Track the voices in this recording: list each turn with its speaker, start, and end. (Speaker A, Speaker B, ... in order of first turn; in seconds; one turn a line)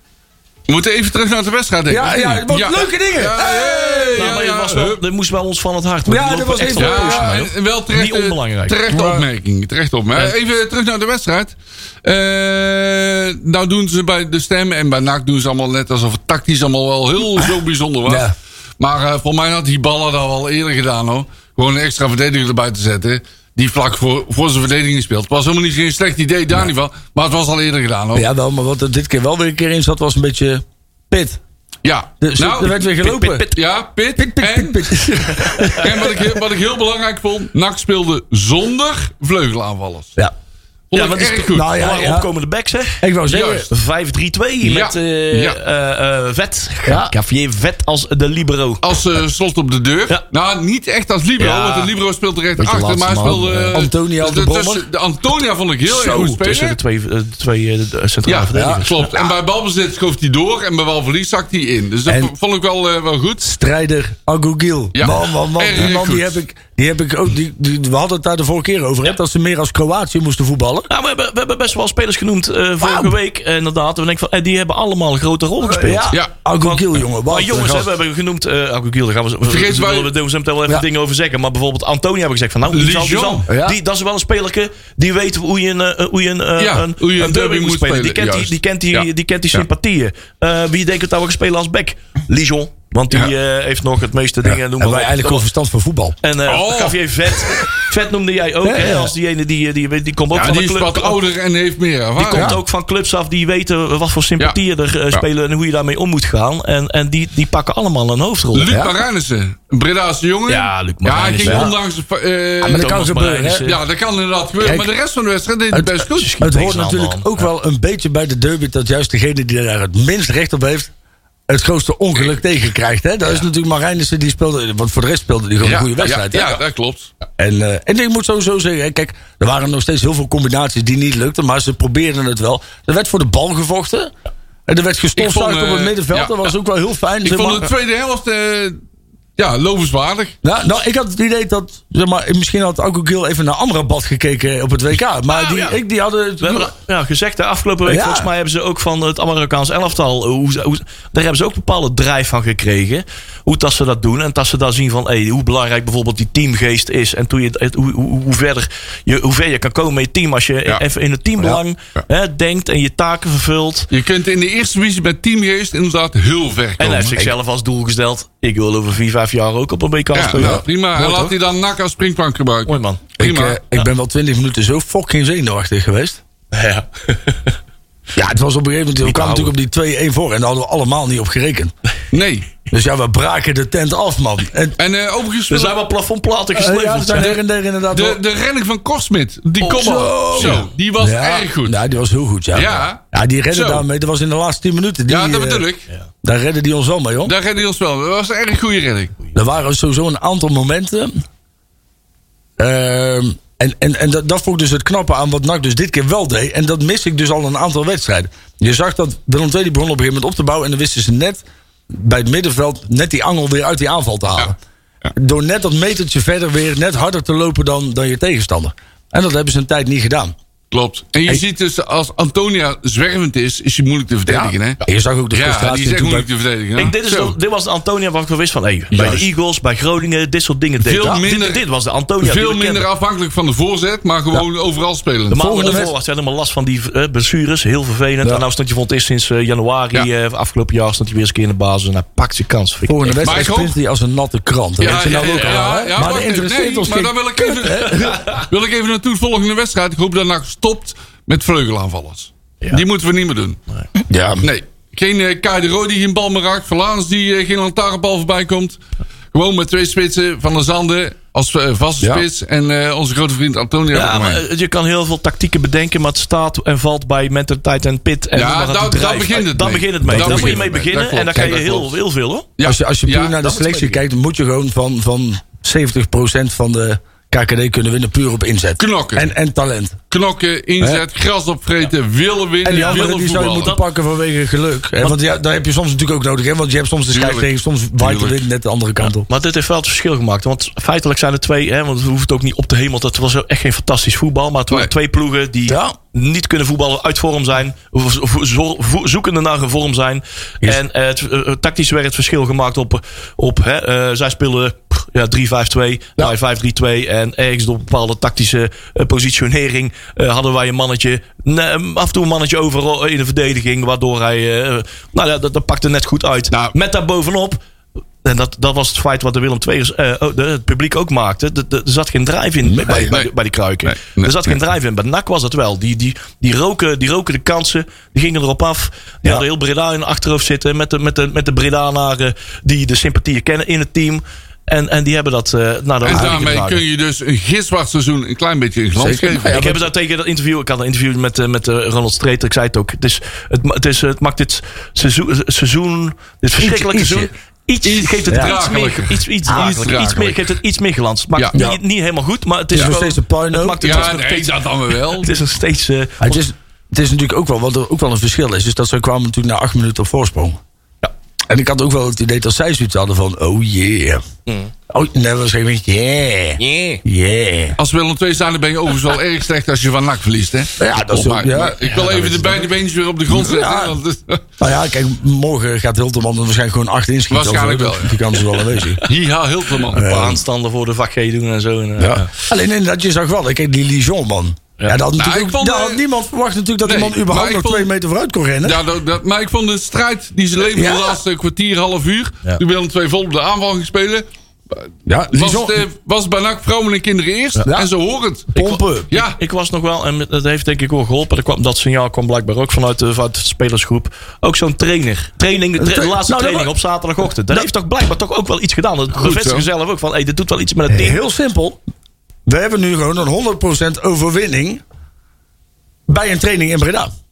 Speaker A: 0.7-5.0
Speaker B: 1.9-4.3
Speaker C: 4.1-8.8
Speaker B: 6.1-7.3
Speaker A: 6.8-28.2
Speaker B: 8.9-9.2
Speaker B: 18.1-18.3
Speaker B: 28.1-31.4
Speaker A: 31.8-32.9
Speaker B: 32.2-33.5
Speaker C: 33.0-33.6
Speaker A: 33.5-40.1
Speaker B: 34.1-36.4
Speaker C: 35.3-35.8
Speaker A: 40.9-41.7
Speaker C: 40.9-48.8
Speaker B: 41.4-42.3
Speaker B: 43.0-43.7
Speaker A: 43.3-43.6
Speaker A: 44.6-45.6
Speaker B: 46.9-47.1
Speaker A: 48.8-56.8
Speaker C: 51.4-51.9
Speaker C: 52.6-53.8
Speaker B: 53.2-54.9
Speaker B: 55.9-56.4
Speaker C: 56.0-59.3
Speaker A: 58.2-63.5
Speaker B: 58.5-58.8
Speaker B: 62.0-62.3
Speaker B: 63.4-70.9
Speaker A: 64.9-66.3
Speaker C: 70.9-95.4
Speaker B: 72.8-73.1
Speaker B: 75.6-77.9
Speaker A: 79.5-80.1
Speaker A: 82.7-83.4
Speaker B: 83.5-83.8
Speaker A: 86.6-89.6
Speaker B: 94.4-96.2
Speaker C: 96.2-101.2
Speaker A: 96.5-97.6
Speaker B: 98.6-99.1
Speaker A: 100.3-102.5
Speaker C: 102.2-108.7
Speaker B: 102.3-102.6
Speaker A: 108.5-113.0
Speaker C: 110.5-111.7
Speaker B: 111.4-111.7
Speaker C: 112.6-113.8
Speaker B: 112.6-113.7
Speaker A: 113.6-116.3
Speaker B: 114.6-114.9
Speaker B: 115.7-120.9
Speaker C: 116.1-117.4
Speaker B: 121.5-126.6
Speaker A: 125.6-127.1
Speaker B: 127.4-134.1
Speaker B: 134.7-137.7
Speaker A: 135.2-136.5
Speaker A: 137.2-138.8
Speaker A: 139.4-140.3
Speaker B: 140.4-146.7
Speaker C: 145.3-145.8
Speaker C: 146.4-163.9
Speaker B: 147.8-148.3
Speaker A: 163.9-167.2
Speaker C: 166.8-171.3
Speaker A: 170.1-173.6
Speaker B: 170.3-170.6
Speaker C: 172.7-173.0
Speaker B: 173.2-176.2
Speaker C: 176.5-177.5
Speaker B: 178.1-181.7
Speaker C: 179.0-179.5
Speaker A: 182.1-182.5
Speaker B: 182.7-184.8
Speaker A: 184.8-185.8
Speaker C: 185.5-187.3
Speaker B: 186.5-188.2
Speaker A: 187.2-191.8
Speaker C: 189.6-190.6
Speaker B: 189.7-195.6
Speaker A: 192.5-193.8
Speaker A: 195.1-195.8
Speaker B: 196.2-197.3
Speaker A: 197.2-199.2
Speaker B: 199.3-201.2
Speaker B: 202.6-214.6
Speaker B: 215.1-220.3
Speaker A: 220.7-227.3
Speaker B: 224.3-226.3
Speaker C: 226.8-232.8
Speaker A: 228.9-229.2
Speaker A: 230.8-231.6
Speaker A: 232.2-235.8
Speaker C: 235.3-243.5
Speaker B: 235.3-235.9
Speaker B: 242.9-248.2
Speaker A: 243.2-243.8
Speaker A: 244.8-253.6
Speaker C: 244.8-245.6
Speaker B: 254.1-254.4
Speaker A: 254.4-258.8
Speaker A: 259.3-264.4
Speaker C: 263.9-272.5
Speaker A: 268.3-271.9
Speaker B: 270.0-270.8
Speaker B: 271.3-271.7
Speaker A: 272.6-273.4
Speaker B: 272.6-280.0
Speaker C: 273.4-274.0
Speaker A: 278.8-279.3
Speaker A: 280.1-283.8
Speaker B: 282.6-289.3
Speaker C: 282.7-283.1
Speaker A: 287.1-288.4
Speaker C: 289.3-317.6
Speaker B: 295.7-295.9
Speaker C: 318.2-336.8
Speaker B: 322.6-323.1
Speaker A: 323.8-324.6
Speaker A: 336.0-339.7
Speaker B: 336.1-336.4
Speaker B: 339.0-339.8
Speaker C: 339.4-356.4
Speaker B: 346.6-347.3
Speaker A: 347.8-350.5
Speaker B: 348.3-348.6
Speaker B: 351.5-351.8
Speaker B: 352.7-354.1
Speaker A: 353.8-355.4
Speaker B: 356.2-360.6
Speaker B: 361.5-364.2
Speaker B: 364.9-367.8
Speaker C: 366.6-367.0
Speaker A: 367.8-374.4
Speaker B: 370.8-372.7
Speaker B: 373.3-374.0
Speaker B: 374.6-379.0
Speaker A: 377.3-378.3
Speaker A: 379.0-380.1
Speaker C: 379.9-382.3
Speaker B: 379.9-380.4
Speaker B: 382.0-388.8
Speaker A: 385.2-386.0
Speaker A: 386.8-387.9
Speaker A: 388.6-399.4
Speaker B: 390.7-391.2
Speaker B: 395.1-395.8
Speaker B: 397.6-397.9
Speaker B: 398.5-399.1
Speaker C: 398.6-411.2
Speaker B: 405.8-406.7
Speaker A: 409.1-409.7
Speaker B: 410.9-411.8
Speaker B: 412.5-414.8
Speaker B: 416.1-417.1